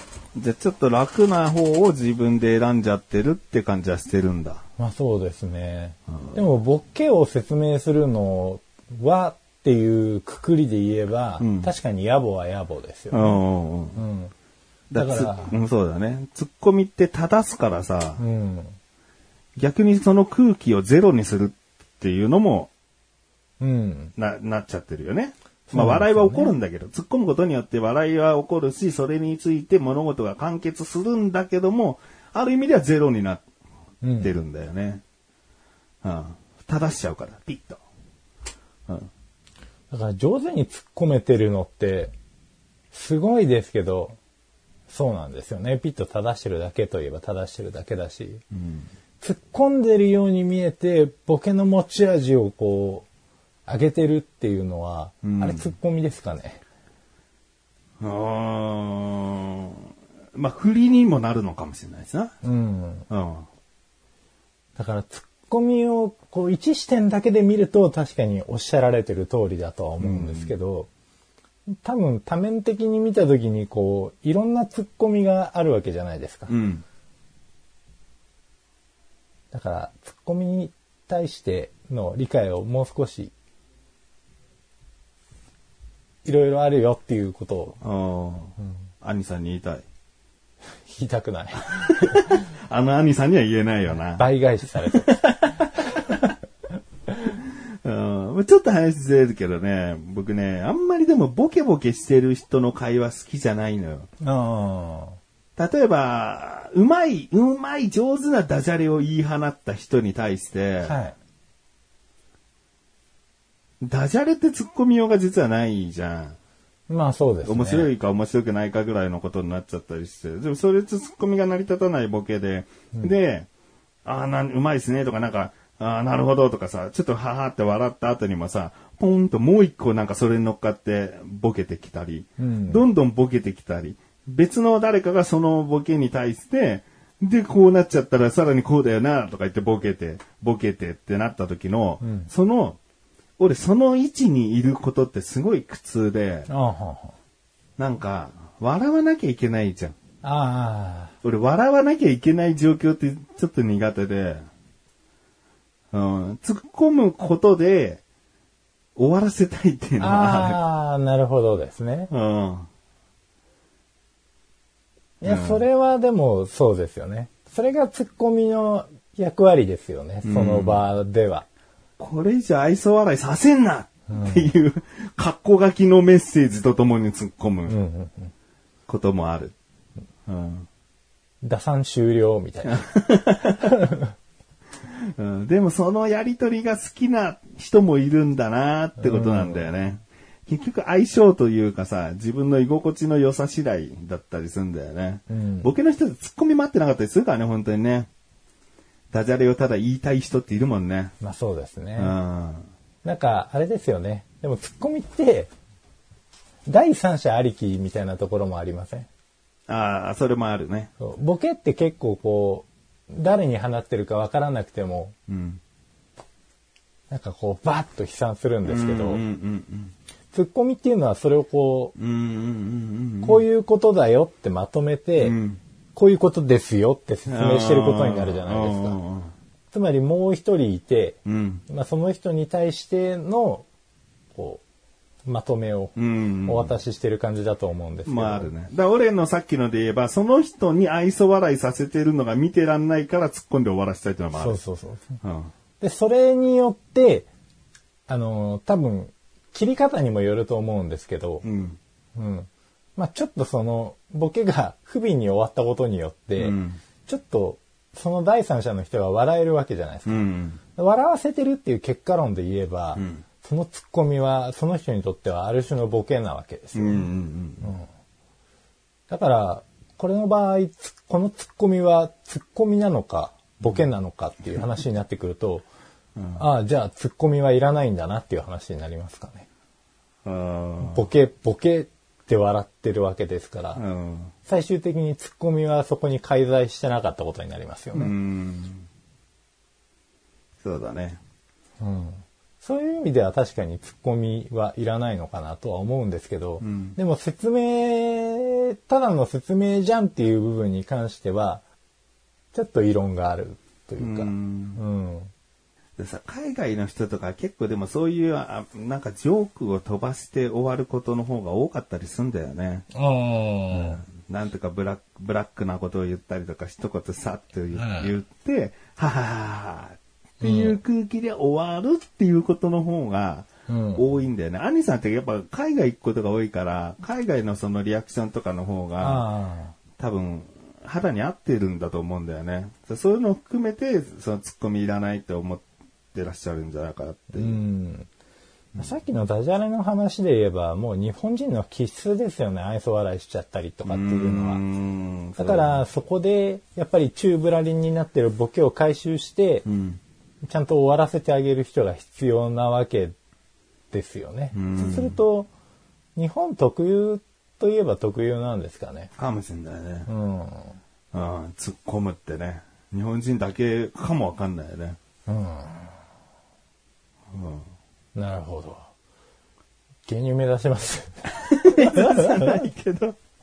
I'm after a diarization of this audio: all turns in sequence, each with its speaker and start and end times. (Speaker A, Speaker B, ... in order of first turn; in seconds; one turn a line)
Speaker A: 0.3-4.6
Speaker B: 4.8-13.4
Speaker A: 11.4-11.7
Speaker A: 13.1-14.0
Speaker B: 13.9-14.3
Speaker A: 14.9-18.2
Speaker B: 14.9-15.5
Speaker B: 18.2-18.8
Speaker A: 19.6-22.7
Speaker B: 23.6-24.1
Speaker A: 24.2-33.5
Speaker B: 25.7-26.5
Speaker B: 34.0-34.3
Speaker A: 34.2-35.0
Speaker A: 36.0-37.8
Speaker B: 39.9-42.1
Speaker B: 42.9-44.2
Speaker B: 44.9-48.4
Speaker A: 48.5-48.9
Speaker B: 49.2-53.1
Speaker B: 53.7-56.6
Speaker A: 55.2-55.7
Speaker A: 58.0-62.3
Speaker B: 62.4-63.1
Speaker A: 63.1-63.5
Speaker B: 64.8-70.9
Speaker A: 70.0-70.5
Speaker B: 71.7-76.5
Speaker A: 76.5-76.8
Speaker B: 79.5-83.3
Speaker B: 86.2-87.8
Speaker A: 87.8-89.8
Speaker B: 90.9-92.4
Speaker A: 91.7-94.3
Speaker B: 94.2-95.1
Speaker A: 94.9-96.2
Speaker B: 95.9-96.2
Speaker A: 97.4-104.1
Speaker B: 104.2-105.2
Speaker A: 105.6-111.0
Speaker B: 110.8-111.2
Speaker A: 113.8-116.4
Speaker B: 116.9-117.9
Speaker A: 117.5-123.5
Speaker A: 124.0-142.8
Speaker B: 132.4-132.8
Speaker B: 142.0-142.3
Speaker A: 143.4-146.5
Speaker B: 146.5-147.2
Speaker A: 147.8-150.0
Speaker B: 150.2-151.1
Speaker A: 151.2-154.4
Speaker A: 155.9-158.0
Speaker A: 159.0-160.6
Speaker B: 160.0-162.1
Speaker A: 162.1-162.7
Speaker B: 165.2-171.5
Speaker A: 165.2-165.6
Speaker A: 170.2-170.8
Speaker A: 172.0-177.8
Speaker B: 174.1-174.5
Speaker B: 177.7-178.3
Speaker A: 178.9-179.6
Speaker A: 180.3-180.7
Speaker B: 181.4-182.9
Speaker A: 182.7-183.8
Speaker B: 183.4-184.1
Speaker A: 184.9-198.1
Speaker B: 189.0-189.7
Speaker B: 195.3-195.7
Speaker A: 199.1-201.1
Speaker B: 201.2-202.2
Speaker A: 202.0-202.7
Speaker B: 203.0-205.5
Speaker B: 206.7-209.1
Speaker A: 209.7-210.9
Speaker B: 211.0-215.2
Speaker A: 215.3-215.6
Speaker B: 217.1-219.2
Speaker A: 218.7-219.9
Speaker B: 220.3-221.9
Speaker A: 222.0-223.4
Speaker B: 223.2-225.4
Speaker A: 225.2-225.6
Speaker B: 225.9-229.0
Speaker A: 227.3-229.3
Speaker B: 229.7-233.7
Speaker A: 231.2-231.6
Speaker B: 234.3-234.6
Speaker B: 235.3-238.5
Speaker A: 236.0-236.8
Speaker A: 238.1-244.6
Speaker B: 244.3-245.2
Speaker A: 245.2-245.5
Speaker B: 245.8-247.3
Speaker B: 248.1-251.4
Speaker A: 251.4-251.8
Speaker B: 252.2-267.1
Speaker A: 256.4-256.8
Speaker A: 260.1-260.6
Speaker A: 263.0-263.2
Speaker A: 266.8-267.7
Speaker B: 269.1-275.7
Speaker A: 276.2-276.4
Speaker B: 276.4-279.5
Speaker A: 280.2-281.0
Speaker B: 280.8-283.8
Speaker A: 283.8-284.3
Speaker B: 284.4-288.1
Speaker A: 287.9-288.9
Speaker A: 290.6-291.2
Speaker B: 291.8-301.6
Speaker A: 296.6-297.0
Speaker B: 302.5-305.3
Speaker A: 304.0-304.8
Speaker A: 306.0-312.9
Speaker B: 312.9-314.0
Speaker A: 313.7-329.3
Speaker B: 317.8-318.1
Speaker B: 320.4-320.8
Speaker B: 323.7-324.1
Speaker B: 329.0-329.8
Speaker A: 330.0-337.6
Speaker B: 337.4-338.1
Speaker B: 338.8-344.6
Speaker A: 343.9-345.8
Speaker B: 345.4-349.7
Speaker A: 349.7-350.0
Speaker B: 350.4-353.1
Speaker B: 353.9-355.5
Speaker A: 354.5-355.2
Speaker B: 356.2-359.1
Speaker A: 359.2-360.1
Speaker B: 360.1-360.8
Speaker A: 361.1-365.0
Speaker B: 365.3-365.9
Speaker A: 367.3-367.6
Speaker B: 368.1-368.9
Speaker B: 370.1-372.6
Speaker A: 371.4-373.2